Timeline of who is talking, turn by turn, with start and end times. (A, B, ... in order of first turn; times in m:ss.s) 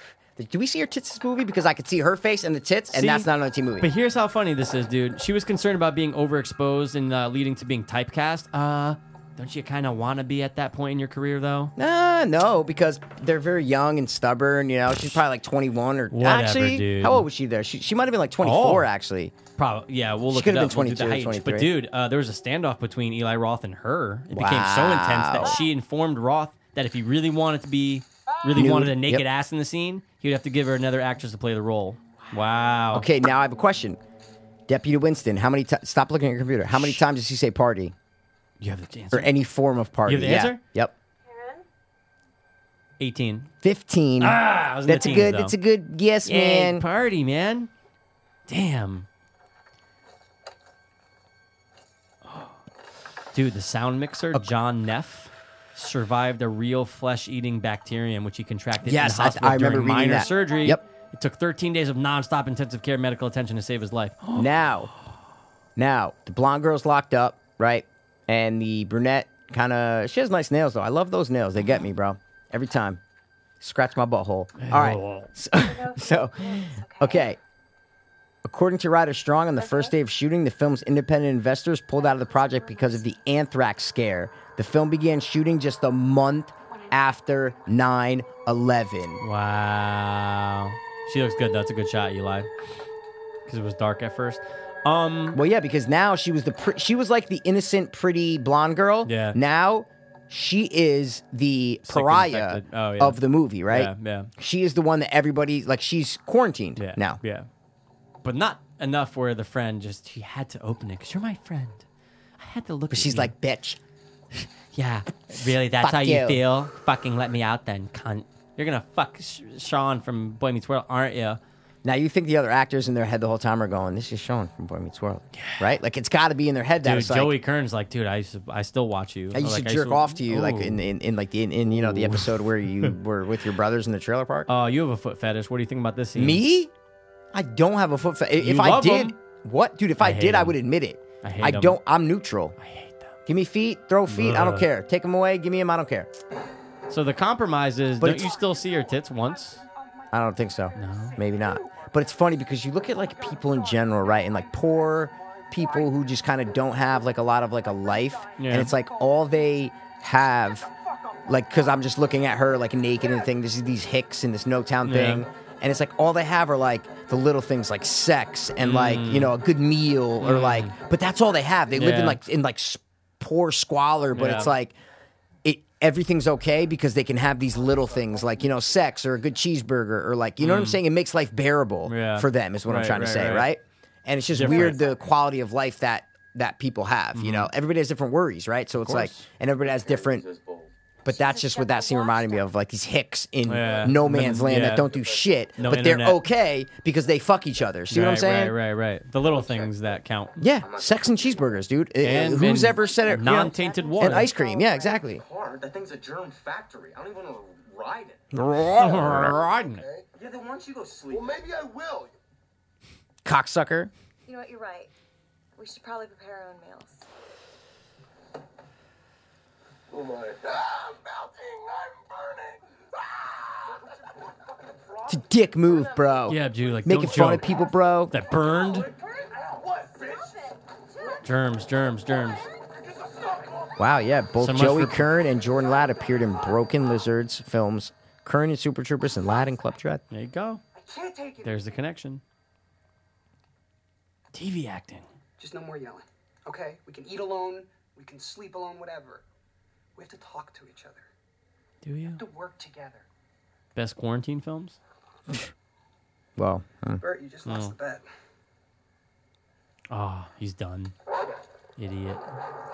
0:00.4-0:03.9 A
0:02.9-0:03.3 B
0:03.8-0:11.7 B
0:11.8-0:19.3 A
0:16.1-0:17.2 B
0:18.4-0:18.9 B
0:19.6-0:33.1 B
0:20.3-0:21.7 A
0:24.3-0:25.6 A
0:28.5-0:29.2 A
0:32.9-0:34.0 A
0:34.7-0:37.9 A
0:36.7-0:37.0 B
0:38.6-0:39.3 B
0:39.1-0:40.9 A
0:40.0-0:40.6 B
0:41.2-0:41.6 C
0:43.0-0:43.5 B
0:43.6-0:46.8 A
0:44.2-0:45.6 B
0:46.2-0:47.7 B
0:48.5-0:49.1 B
0:53.3-1:04.5 B
0:58.8-1:00.8 A
1:00.2-1:00.8 C
1:04.3-1:04.9 A
1:05.8-1:13.0 A
1:13.6-1:17.4 A
1:14.6-1:15.3 B
1:15.5-1:17.3 C
1:18.4-1:29.2 A
1:19.6-1:19.9 C
1:22.0-1:23.1 C
1:26.7-1:27.0 C
1:29.2-1:32.5 B
1:33.4-1:35.4 B
1:35.3-1:47.2 A
1:39.0-1:39.4 B
1:41.9-1:44.3 B
1:46.8-1:47.5 B
1:48.2-1:51.8 B
1:52.4-1:53.3 B
1:52.9-1:53.8 A
1:54.3-2:01.4 B
1:55.4-1:56.4 A
2:01.8-2:07.3 A
2:05.3-2:05.7 B
2:06.8-2:10.8 B
2:09.3-2:14.5 A
2:11.7-2:12.9 B
2:14.5-2:16.4 B
2:16.2-2:16.7 A
2:17.3-2:22.5 A
2:18.4-2:19.2 B
2:20.0-2:20.6 B
2:21.2-2:21.8 B
2:22.6-2:23.2 B
2:23.3-2:26.1 A
2:24.1-2:24.7 B
2:26.9-2:29.6 B
2:28.0-2:28.4 A
2:29.6-2:30.1 D
2:30.1-2:40.7 A
2:30.7-2:31.2 B
2:31.0-2:32.0 D
2:33.3-2:34.3 D
2:35.0-2:35.9 D
2:38.4-2:38.7 B
2:40.6-2:41.4 D
2:41.2-2:54.7 A
2:44.8-2:45.2 B
2:48.6-2:49.3 B
2:50.2-2:50.7 B
2:51.7-2:52.2 B
2:54.1-2:54.5 B
2:55.4-3:10.2 A
3:00.4-3:00.8 B
3:01.8-3:03.5 B
3:04.3-3:04.8 B
3:07.1-3:07.5 B
3:08.8-3:09.3 B
3:09.6-3:10.7 E
3:11.0-3:18.5 A
3:11.1-3:12.5 C
3:13.4-3:14.9 B
3:14.8-3:15.4 E
3:15.6-3:16.2 B
3:17.9-3:20.4 B
3:19.3-3:19.7 E
3:20.4-3:25.2 A
3:20.5-3:21.6 E
3:22.0-3:24.3 B
3:23.3-3:25.0 C
3:24.2-3:28.3 E
3:28.3-3:29.4 A
3:28.7-3:29.8 B
3:29.7-3:30.1 F
3:30.1-3:31.4 E
3:31.1-3:32.2 F
3:33.2-3:33.9 A
3:34.2-3:34.9 C
3:35.6-3:37.0 C
3:39.9-3:45.2 F
3:45.1-3:48.1 A
3:46.3-3:47.5 B
3:48.1-3:48.9 B
3:49.2-3:50.3 F
3:51.2-3:52.5 B
3:52.7-3:53.8 F
3:53.8-4:00.0 A
3:54.4-3:55.1 B
4:00.1-4:00.6 B
4:00.8-4:01.6 D
4:01.4-4:02.2 B
4:04.3-4:05.1 B
4:05.4-4:09.2 D
4:09.9-4:11.1 D
4:11.8-4:12.2 B
4:12.1-4:13.0 D
4:13.7-4:14.8 B
4:16.4-4:17.0 A
4:17.0-4:18.1 D
4:17.4-4:17.7 B
4:19.9-4:20.9 B
4:21.8-4:22.2 B